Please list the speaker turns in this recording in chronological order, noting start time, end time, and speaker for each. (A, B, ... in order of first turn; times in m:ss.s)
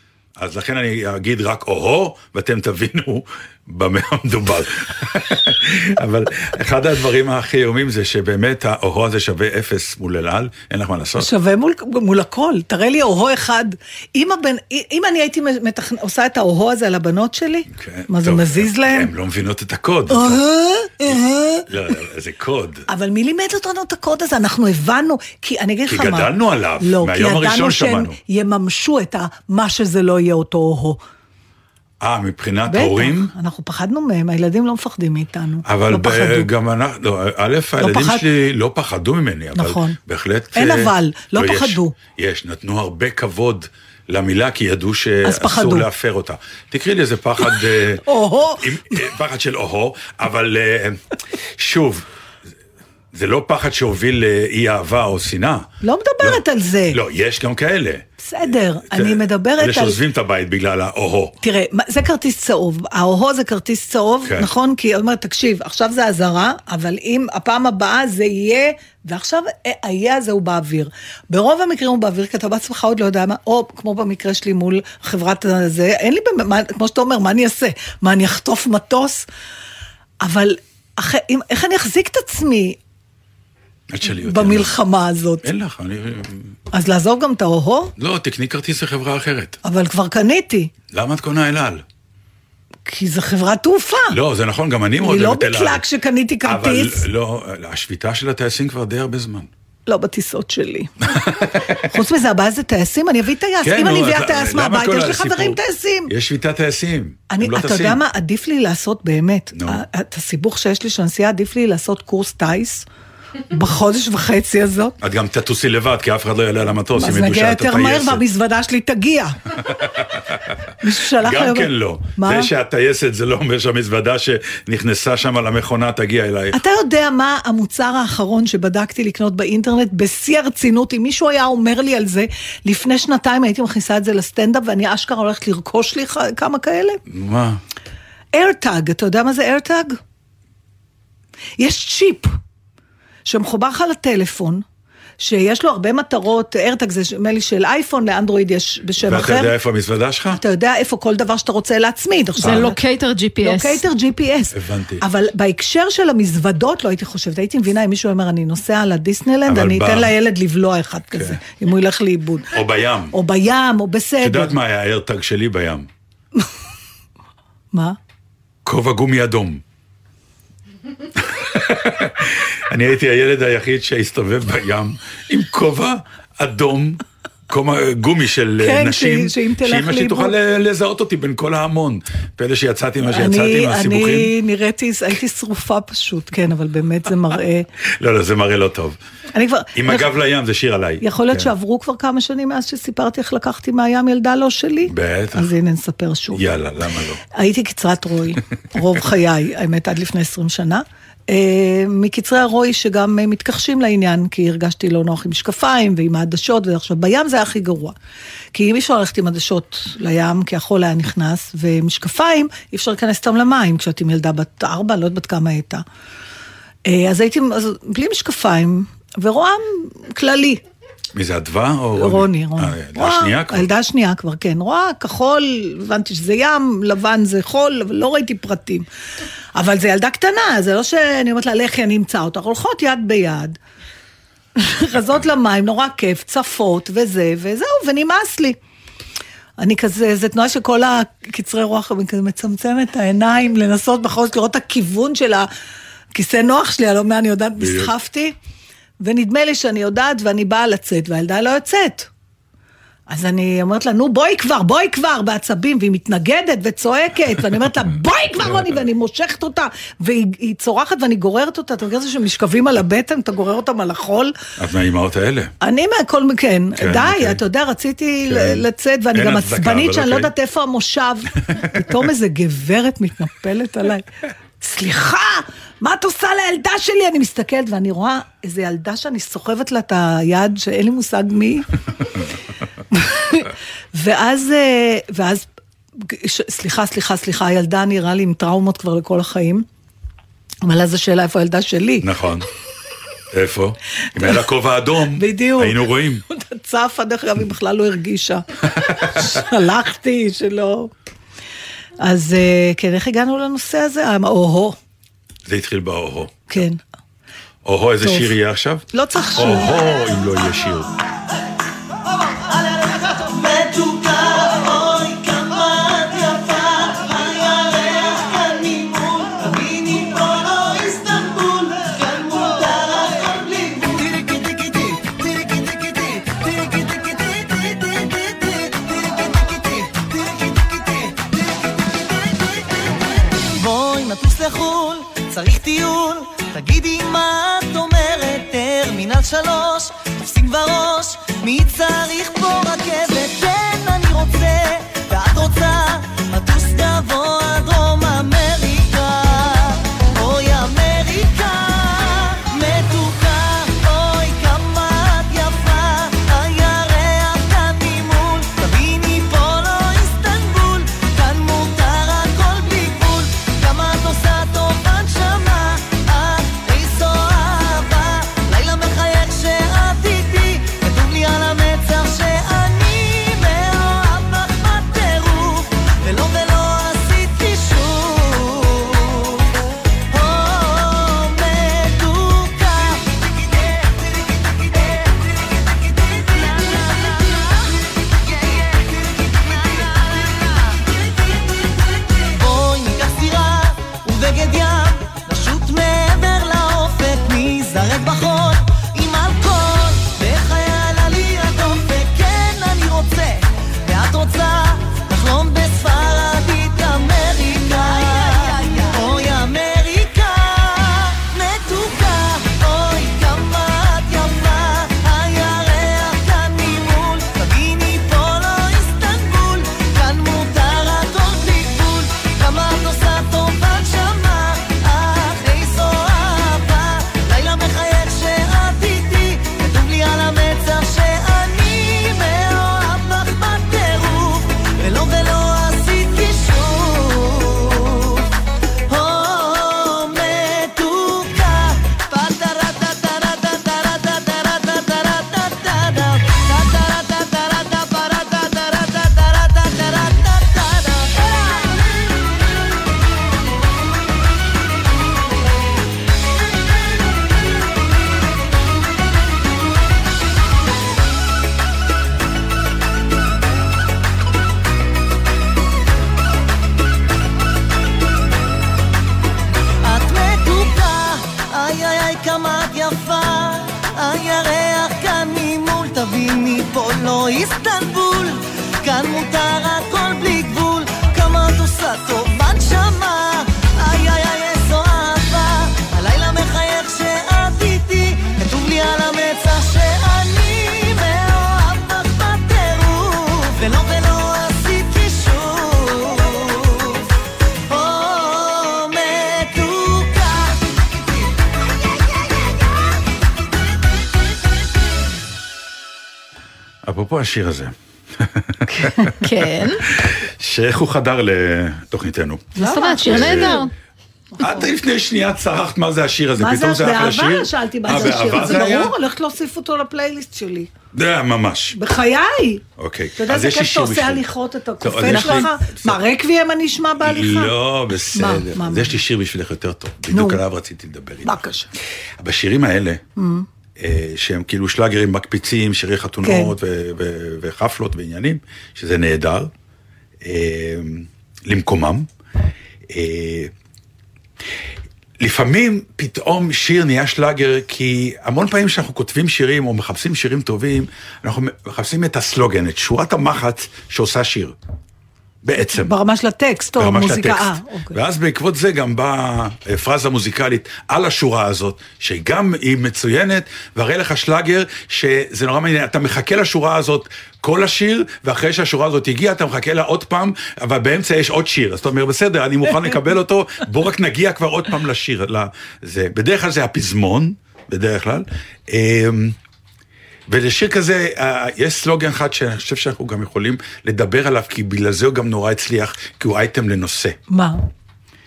0:00.4-0:11.3 A
0:11.2-0:19.1 B
0:17.7-0:20.4 A
0:20.1-0:21.6 B
0:21.7-0:22.8 A
0:22.9-0:31.0 B
0:25.9-0:28.2 A
0:32.0-0:33.3 A
0:32.7-0:36.5 B
0:35.6-0:48.0 A
0:37.8-0:38.2 B
0:39.5-0:40.0 B
0:40.5-0:41.9 B
0:45.2-0:45.9 B
0:48.0-0:49.0 B
0:48.6-0:51.0 A
0:51.6-0:52.1 A
0:53.1-0:55.7 A
0:55.8-0:57.0 B
0:56.2-0:58.1 A
0:58.2-1:00.0 B
0:58.8-1:01.4 A
1:01.4-1:19.3 B
1:04.2-1:04.5 A
1:20.2-1:22.8 B
1:23.9-1:24.8 A
1:24.2-1:25.5 B
1:25.4-1:26.5 A
1:26.7-1:27.9 B
1:28.0-1:29.6 A
1:29.6-1:30.7 B
1:30.9-1:31.8 A
1:32.8-1:34.2 B
1:34.1-1:35.8 A
1:35.0-1:37.0 B
1:36.4-1:39.5 A
1:39.9-1:46.1 B
1:41.2-1:41.8 A
1:43.6-1:48.0 A
1:47.3-1:52.8 B
1:49.5-1:49.8 A
1:53.5-1:55.0 B
1:55.0-1:58.2 A
1:57.0-1:59.4 B
1:59.6-2:00.5 A
2:00.8-2:02.5 B
2:01.2-2:06.6 A
2:06.5-2:17.0 B
2:17.1-2:17.6 A
2:18.3-2:20.0 B
2:21.6-2:22.4 B
2:23.2-2:24.6 B
2:25.2-2:29.6 B
2:29.0-2:30.4 A
2:30.3-2:32.8 B
2:32.4-2:33.8 C
2:33.4-2:42.5 B
2:34.5-2:35.0 A
2:39.4-2:40.1 A
2:41.1-2:41.4 A
2:42.5-2:43.1 A
2:43.1-2:44.6 B
2:44.2-2:45.9 A
2:48.6-2:49.6 A
2:51.2-3:04.3 A
2:58.6-3:00.3 B
3:03.0-3:07.7 B
3:07.8-3:09.0 A
3:09.3-3:10.1 B
3:09.7-3:11.5 A
3:11.0-3:16.5 B
3:14.8-3:15.5 A
3:16.3-3:17.2 A
3:17.3-3:27.9 B
3:28.5-3:35.8 B
3:36.8-3:40.6 B
3:41.1-3:43.7 A
3:41.9-3:48.9 B
3:49.5-3:53.6 B
3:54.6-3:58.6 B
3:59.6-4:05.5 B
4:06.1-4:08.4 B
4:07.6-4:07.9 A
4:09.0-4:12.1 B
4:13.1-4:24.4 B
4:24.6-4:25.5 A
4:25.6-4:41.7 B
4:26.8-4:27.4 A
4:28.2-4:30.3 A
4:42.9-4:45.5 B
4:46.0-4:49.6 B
4:50.6-4:52.1 B
4:52.0-4:52.4 A
4:53.3-4:56.2 A
4:55.1-5:00.9 B
5:02.0-5:04.8 B
5:05.4-5:06.5 A
5:06.5-5:06.8 B
5:07.6-5:10.9 A
5:08.0-5:08.4 B
5:08.9-5:09.8 B
5:12.5-6:19.5 D
6:20.1-7:18.3 D
7:18.9-7:31.7 D
7:49.8-8:17.1 D
8:17.7-8:21.3 D
8:26.8-8:29.1 A
8:28.7-8:29.1 B
8:29.2-8:29.8 C
8:29.9-8:32.5 A
8:32.6-8:33.7 B
8:32.6-8:33.7 C
8:33.0-8:33.7 A
8:34.4-8:34.6 B
8:34.4-8:38.9 A
8:36.4-8:40.7 B
8:40.9-8:41.8 A
8:41.7-8:42.6 B
8:42.8-8:44.3 A
8:43.2-8:47.5 B
8:44.8-8:46.0 A
8:45.0-8:45.5 C
8:47.0-8:51.4 A
8:48.1-8:49.0 B
8:50.1-8:50.4 B
8:51.2-8:51.7 B
8:52.2-8:53.0 A
8:53.2-8:53.5 B
8:53.8-8:59.5 A
8:56.2-8:56.5 B
9:00.2-9:02.1 A
9:02.9-9:03.5 A
9:05.2-9:14.6 A
9:15.4-9:15.9 A
9:15.7-9:18.0 B
9:16.8-9:39.4 A
9:40.3-9:47.2 A
9:47.3-9:47.6 B